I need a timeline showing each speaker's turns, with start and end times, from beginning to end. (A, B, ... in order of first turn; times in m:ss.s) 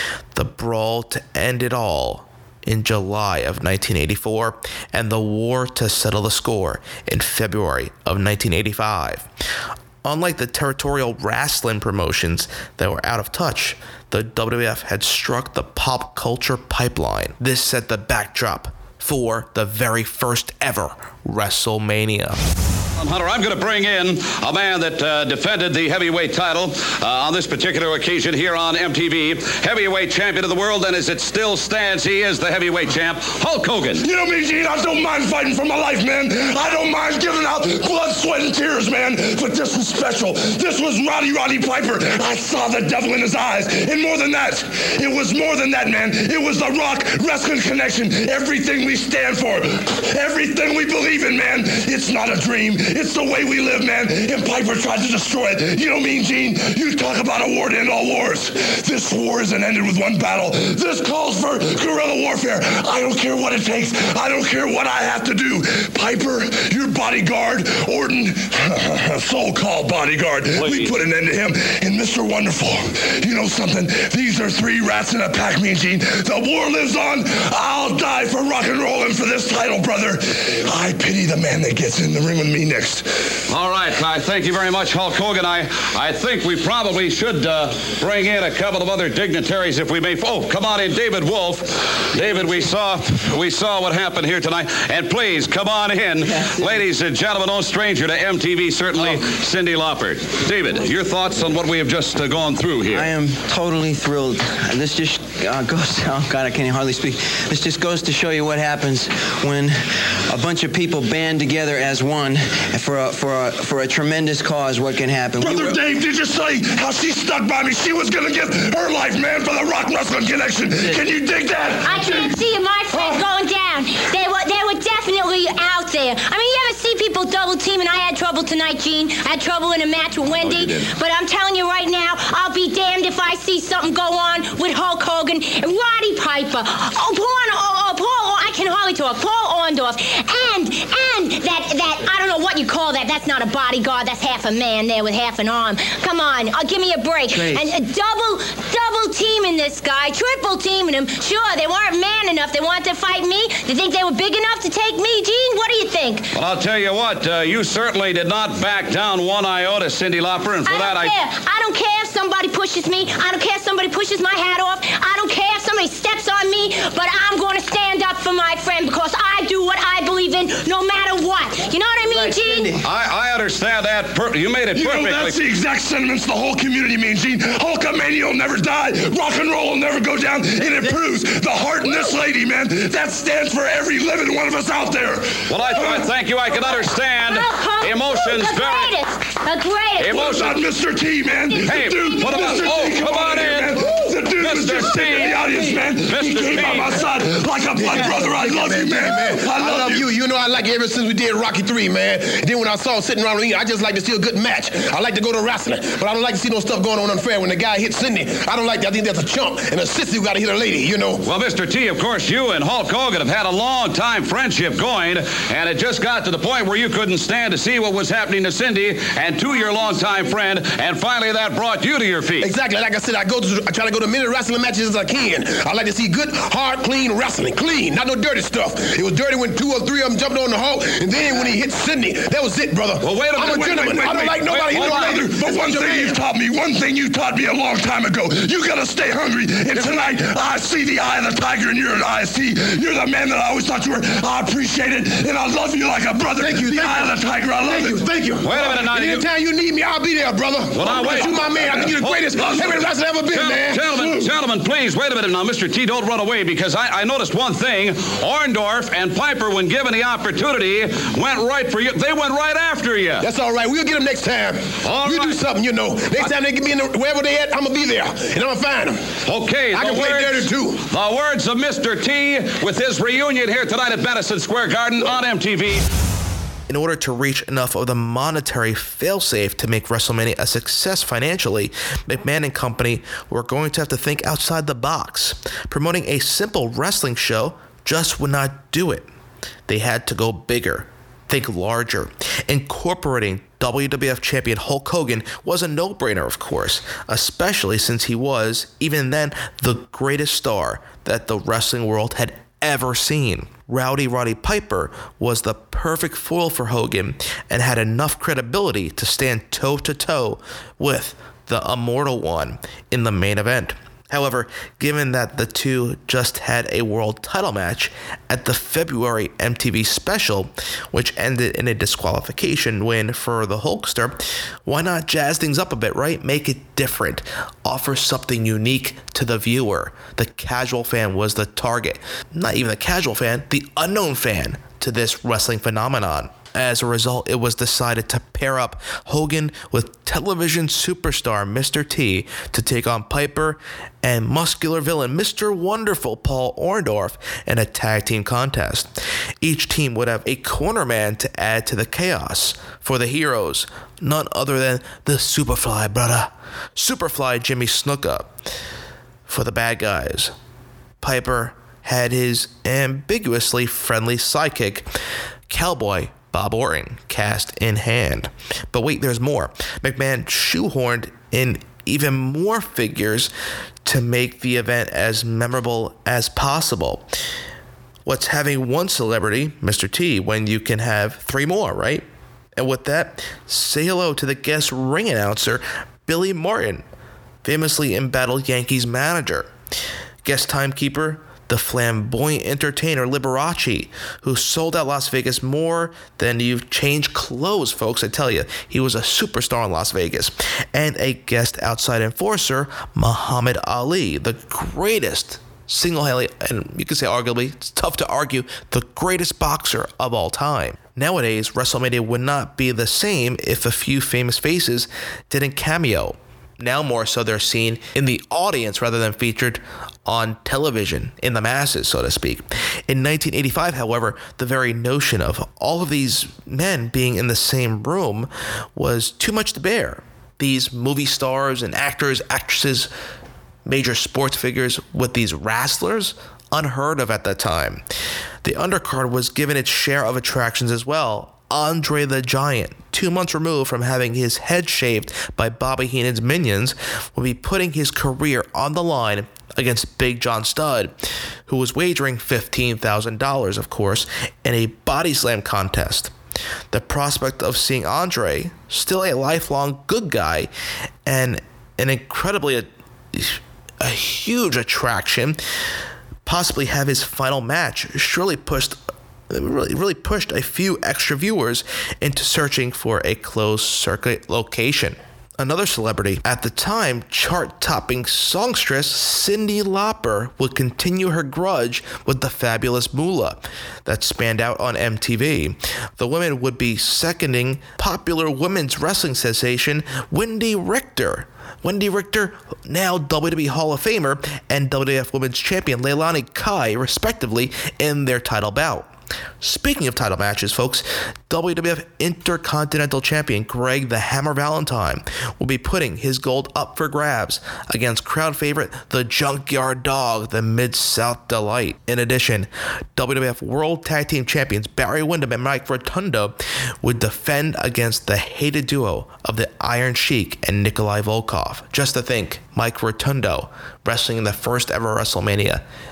0:00.4-0:09.3 A
0:10.0-0:22.4 A
0:23.0-0:34.0 B
0:34.0-1:23.5 C
1:10.5-1:10.9 B
1:23.5-1:43.1 B
1:42.9-1:55.8 D
1:55.4-2:02.4 C
2:01.8-2:36.3 E
2:02.9-2:03.2 C
2:27.4-2:27.7 D
2:36.4-2:41.1 B
2:40.7-2:52.8 E
2:52.8-2:55.4 B
2:54.7-3:06.1 C
3:05.5-3:09.0 B
3:07.2-3:10.2 E
3:10.0-3:10.6 B
3:10.0-3:20.1 C
3:11.6-3:13.8 B
3:14.4-3:17.1 B
3:16.4-3:31.3 F
3:31.2-3:42.5 B
3:42.4-3:56.2 F
3:53.0-3:55.3 B
3:53.4-4:08.1 C
3:59.7-4:00.0 F
4:06.4-4:14.3 F
4:08.4-4:09.2 B
4:10.7-4:12.5 B
4:10.9-4:12.8 C
4:13.3-4:23.3 B
4:23.2-4:29.2 F
4:24.8-4:25.4 B
4:29.2-4:35.9 B
4:29.7-4:30.8 F
4:36.7-4:49.1 A
4:49.7-5:58.3 A
5:59.3-6:00.3 A
6:01.0-6:04.9 A
6:05.5-6:13.3 A
6:13.8-6:17.1 A
6:18.1-6:22.0 A
6:22.6-6:26.8 A
6:27.4-6:29.5 A
6:30.2-7:12.9 A
7:13.7-7:17.8 A
7:18.4-7:30.9 A
7:31.5-7:36.1 A
7:36.7-7:40.5 A
7:41.1-7:45.4 A
7:46.3-7:48.8 A
7:49.3-8:45.6 A